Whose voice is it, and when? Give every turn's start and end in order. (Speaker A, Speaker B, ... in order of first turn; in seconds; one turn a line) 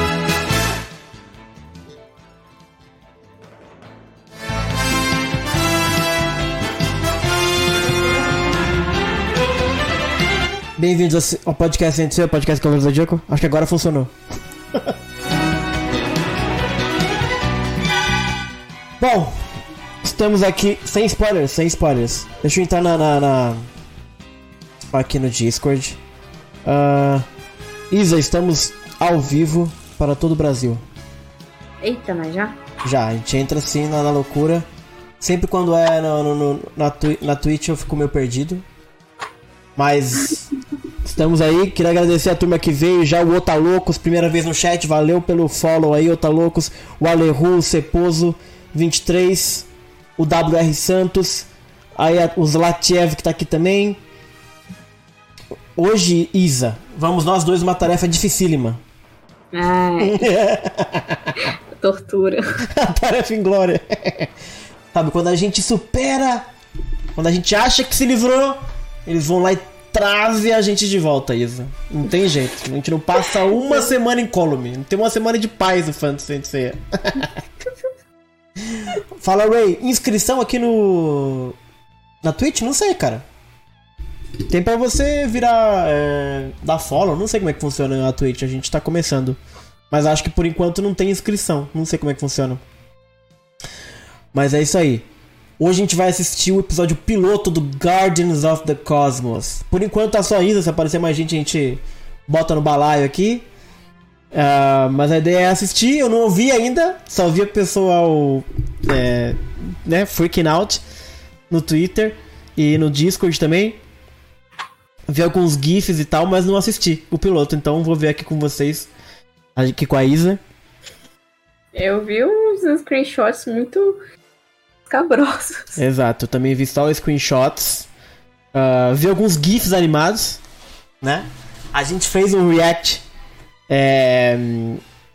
Speaker A: 10.8-14.1
Speaker A: 19.0-19.4
Speaker A: 20.0-23.7
Speaker A: 24.9-26.0
Speaker A: 26.6-27.2
Speaker A: 27.9-30.8
Speaker B: 31.8-32.6
Speaker A: 32.8-34.7
Speaker A: 35.2-38.6
Speaker A: 39.8-40.5
Speaker A: 41.0-54.0
Speaker A: 55.8-58.8
Speaker B: 59.5-60.3
Speaker A: 60.0-61.3
Speaker B: 61.7-62.6
Speaker A: 62.6-64.3
Speaker A: 64.9-66.5
Speaker A: 67.2-77.3
Speaker A: 78.6-81.5
Speaker A: 82.2-83.2
Speaker A: 84.5-89.4
Speaker A: 89.9-92.6
Speaker A: 94.3-95.0
Speaker A: 95.6-103.5
Speaker A: 104.3-110.8
Speaker A: 111.5-113.8
Speaker A: 115.1-118.9
Speaker A: 119.6-120.4
Speaker B: 121.7-124.0
Speaker B: 124.9-125.8
Speaker A: 125.8-127.9
Speaker A: 128.5-130.4
Speaker A: 131.0-133.0
Speaker A: 133.7-134.8